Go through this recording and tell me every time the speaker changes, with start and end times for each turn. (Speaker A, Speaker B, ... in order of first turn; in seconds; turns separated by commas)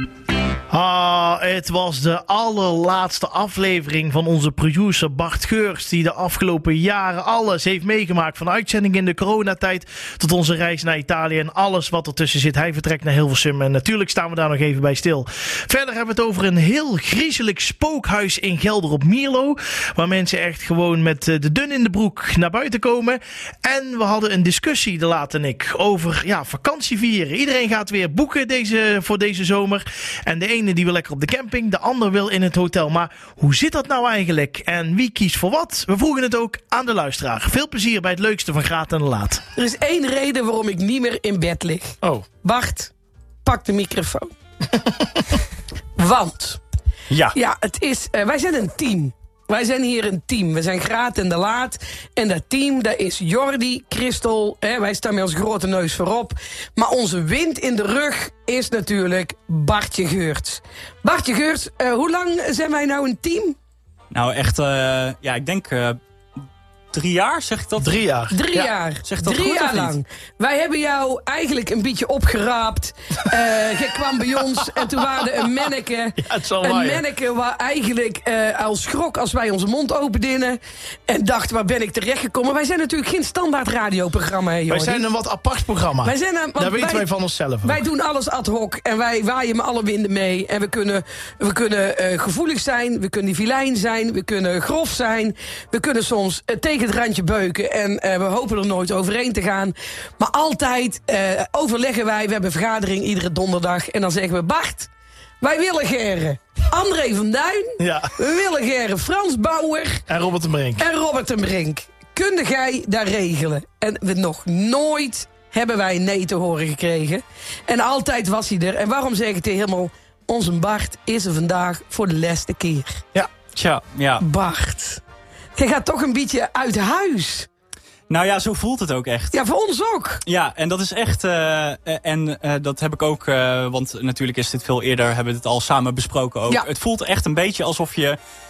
Speaker A: 0.7-39.4, Speaker B: 39.6-42.9, Speaker B: 43.5-44.3, Speaker B: 46.0-46.6, Speaker B: 47.3-63.6, Speaker C: 64.1-66.0, Speaker C: 66.9-68.0, Speaker A: 67.8-68.7, Speaker B: 68.3-85.1, Speaker C: 69.0-70.0, Speaker A: 76.2-77.0, Speaker A: 84.7-87.8, Speaker B: 86.0-87.1, Speaker B: 87.6-104.9, Speaker B: 105.4-110.0, Speaker A: 107.8-108.1, Speaker A: 110.1-110.8, Speaker B: 110.8-123.0, Speaker C: 123.6-124.2, Speaker B: 124.2-125.0, Speaker B: 125.6-127.5, Speaker C: 128.1-129.4, Speaker B: 129.3-130.2, Speaker C: 130.2-138.2